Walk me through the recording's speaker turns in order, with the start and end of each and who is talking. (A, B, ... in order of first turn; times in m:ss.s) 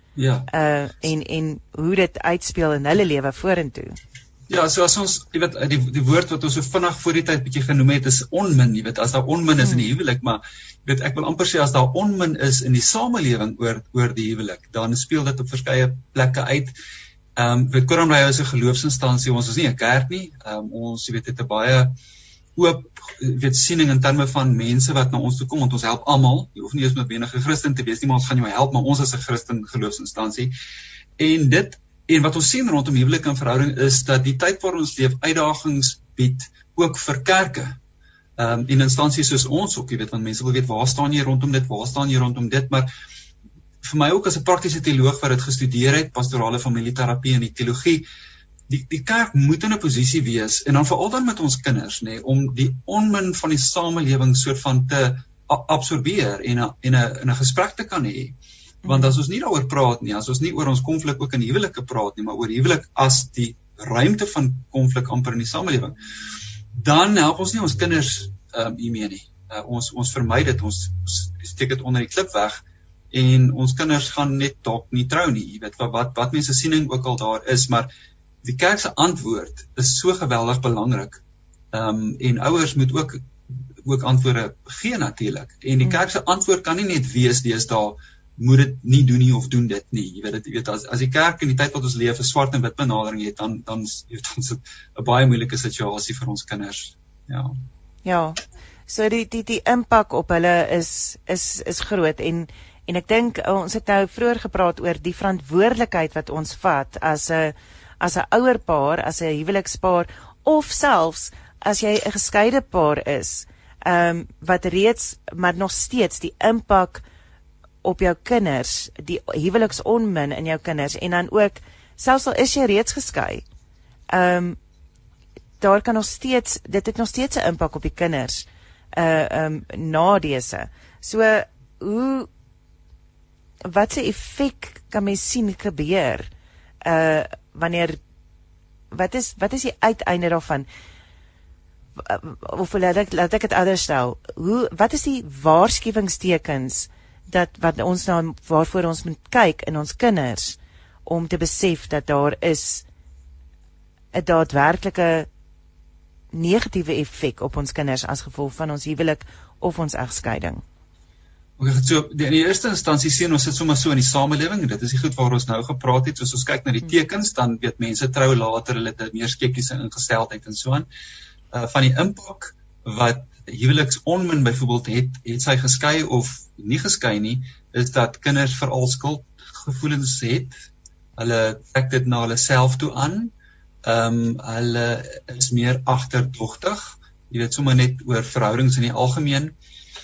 0:00.2-0:00.5 A
0:00.5-0:04.0 B
0:04.5-0:16.7 A
0:09.6-0:09.9 B
0:17.4-0:21.9 A
0:22.6-0:30.5 A
0:31.2-0:37.8 A
0:38.4-0:42.9 A
0:43.8-0:48.0 A
0:48.7-1:05.9 A
0:58.8-0:59.2 B
1:06.8-1:17.9 A
1:18.4-1:23.2 A
1:23.8-1:37.5 A
1:38.0-1:57.0 B
1:57.8-2:03.4 B
2:04.1-2:04.6 B
2:05.6-2:12.3 B
2:13.7-2:16.3 B
2:16.8-2:18.0 B
2:18.9-2:20.7 B
2:22.0-2:32.8 B
2:34.1-2:35.3 B
2:36.3-2:40.6 B
2:41.6-2:50.8 A
2:51.5-3:00.6 A
3:01.2-3:03.3 A
3:03.8-3:09.6 A